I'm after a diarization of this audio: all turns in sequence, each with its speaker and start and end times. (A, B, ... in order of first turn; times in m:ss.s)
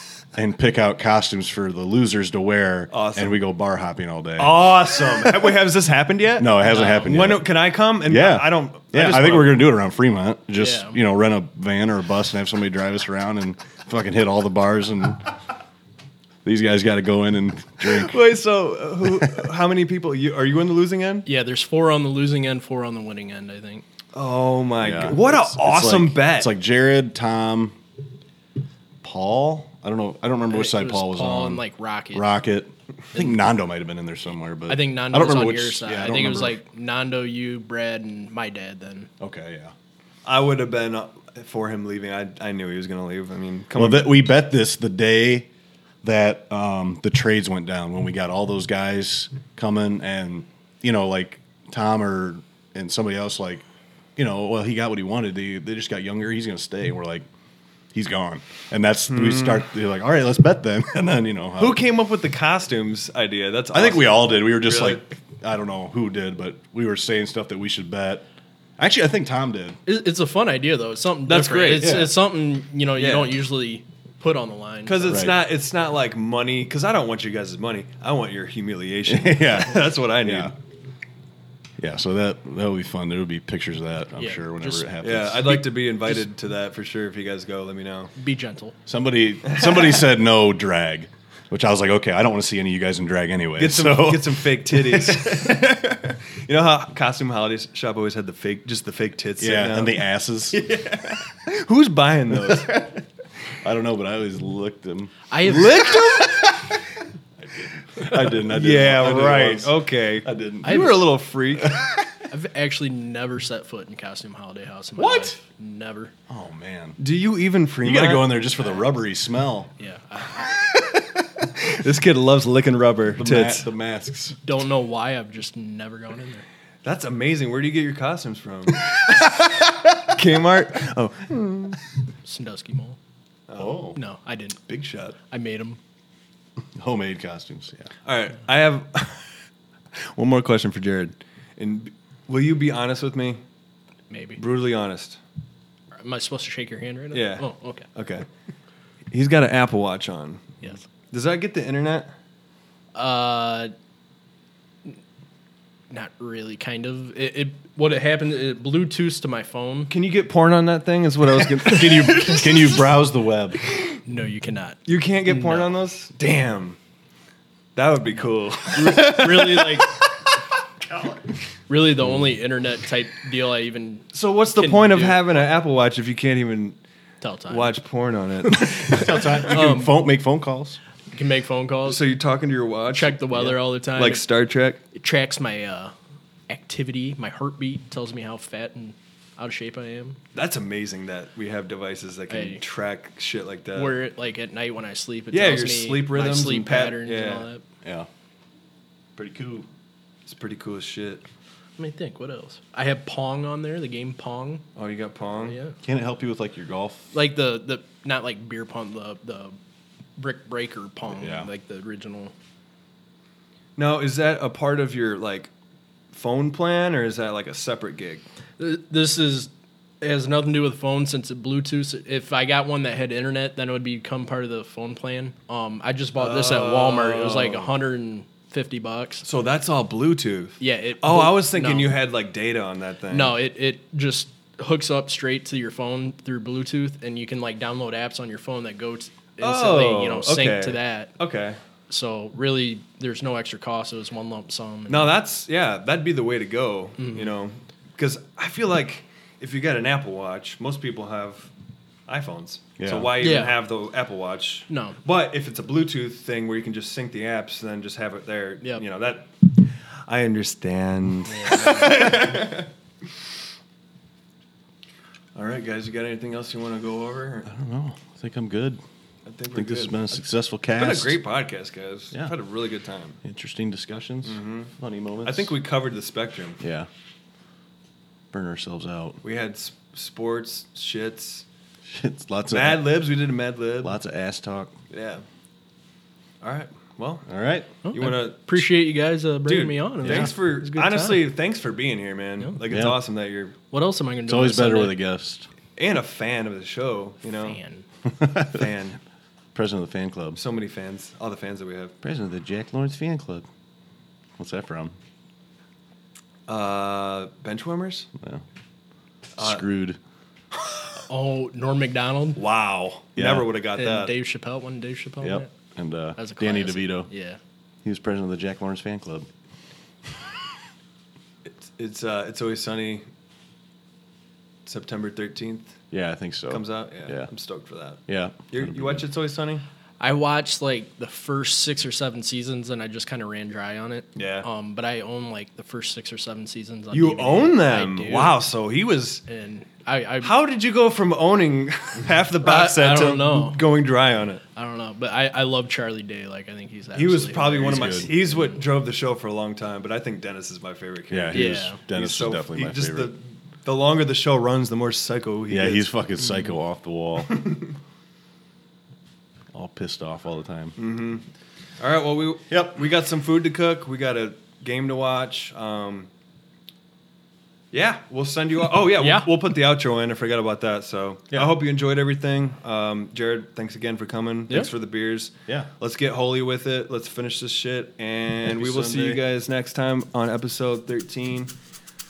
0:00.3-0:05.3 A
0:02.9-0:03.4 B
0:04.4-0:09.6 B
0:06.4-0:15.3 A
0:06.6-0:07.1 C
0:10.6-0:11.0 C
0:16.4-0:18.2 A
0:17.8-0:21.2 B
0:21.2-0:23.8 C
0:24.1-0:26.5 B
0:24.8-0:27.8 A
0:29.0-0:36.6 A
0:30.5-0:32.4 C
0:34.7-0:39.1 C
0:39.2-0:39.7 A
0:40.2-0:44.2 B
0:43.7-0:45.5 A
0:46.0-0:53.6 A
0:54.2-0:57.3 A
0:57.9-1:01.8 A
0:59.1-0:59.6 B
1:01.6-1:05.0 B
1:03.7-1:08.2 A
1:08.8-1:09.8 A
1:09.8-1:15.2 C
1:11.3-1:12.0 B
1:11.8-1:12.1 A
1:13.0-1:13.4 B
1:14.8-1:20.5 B
1:15.1-1:15.4 A
1:19.1-1:20.5 A
1:21.8-1:25.6 A
1:24.2-1:24.9 C
1:25.0-1:28.1 B
1:28.2-1:28.8 C
1:28.9-1:35.6 A
1:29.4-1:30.0 B
1:33.6-1:42.8 B
1:39.4-1:40.9 A
1:42.5-1:42.8 A
1:43.6-1:46.5 A
1:45.3-1:46.2 C
1:45.4-1:46.6 B
1:47.4-1:51.0 A
1:48.0-1:51.8 B
1:50.6-1:51.0 C
1:51.6-1:52.0 A
1:52.3-1:56.1 C
1:55.0-1:55.4 B
1:56.3-1:57.0 A
1:57.0-1:58.4 B
1:57.8-1:59.7 A
1:59.8-2:00.5 C
2:01.5-2:03.6 B
2:03.2-2:04.4 A
2:04.4-2:06.4 C
2:06.8-2:11.8 B
2:12.2-2:13.0 C
2:13.5-2:13.9 B
2:13.6-2:14.0 A
2:14.0-2:14.6 C
2:14.7-2:15.2 B
2:15.3-2:15.8 C
2:16.7-2:17.9 A
2:18.0-2:19.2 B
2:20.0-2:23.4 B
2:24.1-2:24.4 C
2:24.4-2:25.2 B
2:25.9-2:27.8 C
2:27.1-2:28.2 B
2:29.1-2:32.1 B
2:32.9-2:33.7 C
2:35.9-2:39.9 C
2:39.9-2:42.8 B
2:41.6-2:43.6 A
2:44.0-2:45.7 C
2:44.8-2:46.8 B
2:47.7-2:50.1 B
2:48.7-2:50.0 C
2:50.9-2:51.2 B
2:51.7-2:55.2 C
2:54.1-2:56.8 B
2:57.2-2:57.7 C
2:57.5-2:59.4 B
2:58.7-3:00.8 A
2:58.9-3:00.0 C
3:01.1-3:02.0 C
3:01.8-3:04.8 B
3:02.9-3:04.2 C
3:04.9-3:05.9 C
3:06.5-3:10.2 C
3:10.3-3:14.0 B
3:12.3-3:12.6 C
3:13.7-3:17.6 C
3:15.3-3:17.5 B
3:17.8-3:18.1 A
3:19.2-3:19.7 A
3:20.3-3:21.2 B
3:21.8-3:24.6 C
3:24.8-3:25.6 B
3:25.4-3:25.8 C
3:25.8-3:27.1 A
3:27.1-3:29.6 C
3:30.2-3:32.3 C
3:31.2-3:31.5 A
3:33.8-3:35.5 B
3:36.1-3:38.2 B
3:38.6-3:39.5 C
3:40.0-3:49.2 C
3:46.2-3:47.7 B
3:49.2-3:53.4 B
3:50.6-3:52.0 C
3:53.1-4:01.1 C
3:59.4-4:01.6 B
4:01.9-4:05.1 C
4:04.9-4:11.5 B
4:07.0-4:07.3 C
4:12.1-4:22.7 B
4:12.8-4:13.1 A
4:13.2-4:13.6 C
4:14.7-4:15.0 C
4:21.3-4:22.2 C
4:25.3-4:27.5 B
4:27.5-4:28.8 A
4:29.2-4:33.2 B
4:29.5-4:31.2 A
4:33.2-4:35.5 A
4:34.2-4:34.7 B
4:35.2-4:36.6 B
4:36.6-4:36.9 A
4:38.3-4:39.2 A
4:39.2-4:41.4 B
4:41.9-4:42.9 A
4:42.5-4:43.9 B
4:43.8-4:44.8 A
4:44.9-4:45.2 B
4:46.4-4:47.3 B
4:47.3-4:47.7 A
4:47.8-4:51.3 C
4:47.9-4:48.6 B
4:49.4-4:53.5 B
4:50.0-4:50.3 A
4:52.7-4:53.0 A
4:53.7-4:55.0 C
4:54.3-4:55.5 A
4:55.8-4:57.6 B
4:57.4-4:57.8 C
4:58.1-4:58.6 A
4:58.4-4:59.0 B
4:59.5-5:00.4 A
5:00.3-5:02.0 B
5:02.0-5:03.4 A
5:04.4-5:04.9 A
5:06.5-5:08.1 B
5:09.4-5:09.6 B
5:09.4-5:10.0 A
5:11.1-5:12.4 C
5:12.4-5:14.2 B
5:13.2-5:13.5 A
5:13.8-5:15.5 C
5:15.2-5:17.1 A
5:16.2-5:17.4 C
5:17.8-5:19.3 A
5:21.4-5:23.0 B
5:24.6-5:25.8 B
5:25.9-5:27.3 A
5:26.5-5:29.6 B
5:28.1-5:29.0 A
5:30.0-5:38.4 C
5:34.2-5:34.5 B
5:36.9-5:39.2 B
5:39.3-5:40.3 C
5:40.2-5:44.4 B
5:42.4-5:43.6 C
5:44.5-5:48.6 C
5:46.9-5:56.0 B
5:47.6-5:48.1 A
5:51.1-5:53.1 A
5:51.3-5:51.8 C
5:55.5-5:57.4 A
5:57.3-5:57.7 B
5:59.5-6:00.8 A
6:00.8-6:01.2 B
6:01.8-6:06.1 B
6:07.7-6:21.5 B
6:09.0-6:09.3 C
6:18.4-6:19.2 A